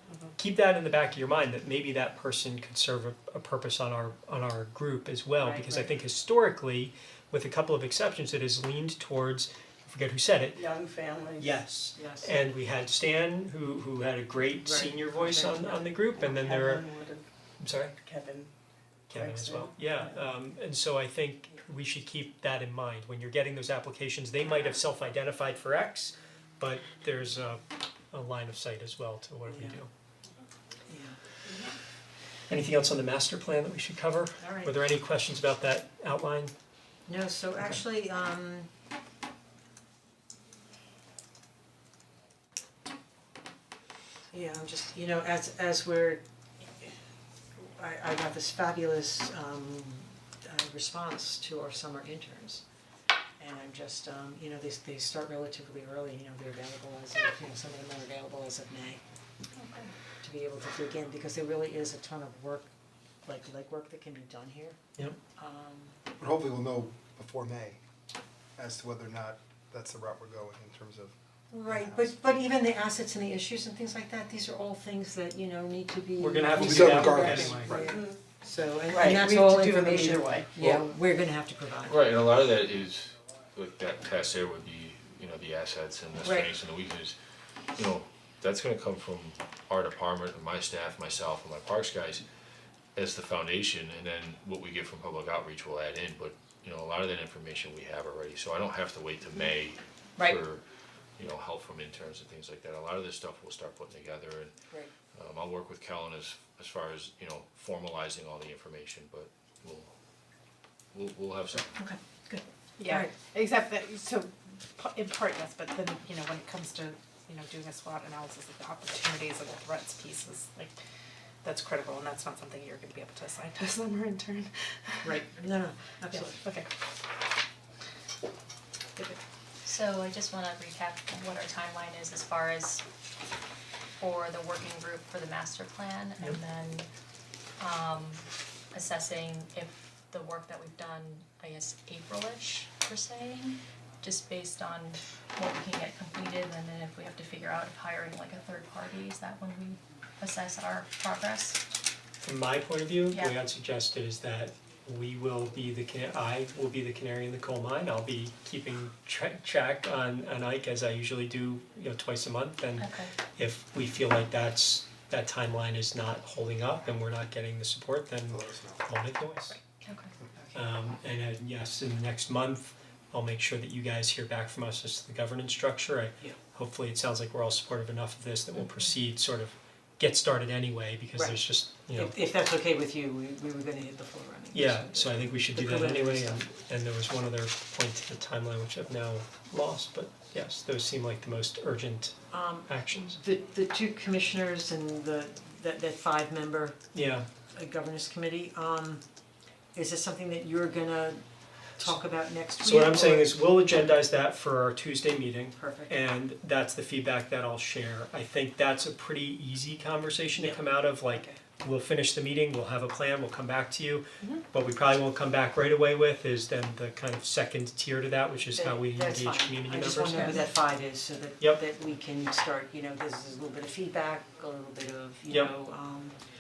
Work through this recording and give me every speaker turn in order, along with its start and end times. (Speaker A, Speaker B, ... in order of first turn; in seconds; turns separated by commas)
Speaker A: 0.4-10.6, Speaker B: 5.4-5.9, Speaker C: 10.6-11.6, Speaker A: 11.3-16.8, Speaker B: 12.0-12.3, Speaker B: 14.6-15.9, Speaker C: 16.2-17.2, Speaker A: 17.6-17.9, Speaker C: 18.0-18.5, Speaker A: 19.1-29.9, Speaker C: 19.1-20.1, Speaker B: 29.4-29.8, Speaker B: 30.9-31.2, Speaker A: 32.5-36.5, Speaker B: 34.4-34.8, Speaker B: 37.1-38.7, Speaker B: 44.3-46.2, Speaker B: 47.6-52.6, Speaker B: 53.4-59.0, Speaker D: 59.6-59.9, Speaker B: 60.2-62.7, Speaker B: 63.2-64.8, Speaker B: 65.3-66.0, Speaker E: 66.2-67.8, Speaker E: 68.6-71.1, Speaker B: 71.5-82.0, Speaker E: 71.7-72.1, Speaker A: 76.2-77.8, Speaker E: 76.6-77.9, Speaker C: 78.9-80.6, Speaker F: 81.8-87.2, Speaker B: 86.2-86.5, Speaker F: 87.8-92.2, Speaker F: 93.0-100.6, Speaker F: 101.2-104.5, Speaker F: 105.1-109.9, Speaker F: 110.9-111.7, Speaker B: 111.8-113.1, Speaker G: 112.8-120.7, Speaker G: 121.4-125.1, Speaker B: 125.0-126.4, Speaker G: 126.1-126.7, Speaker D: 129.6-132.8, Speaker D: 134.0-136.9, Speaker D: 137.6-151.6, Speaker A: 152.2-169.6, Speaker D: 153.1-153.4, Speaker D: 162.8-163.1, Speaker E: 168.3-168.8, Speaker D: 169.8-170.1, Speaker A: 170.5-182.1, Speaker B: 181.9-186.4, Speaker A: 184.5-193.2, Speaker B: 192.3-196.8, Speaker A: 196.9-197.3, Speaker B: 197.5-199.0, Speaker B: 199.7-201.2, Speaker B: 201.8-203.3, Speaker A: 202.6-220.4, Speaker B: 205.6-205.9, Speaker B: 210.3-211.4, Speaker B: 218.5-226.2, Speaker A: 225.3-225.5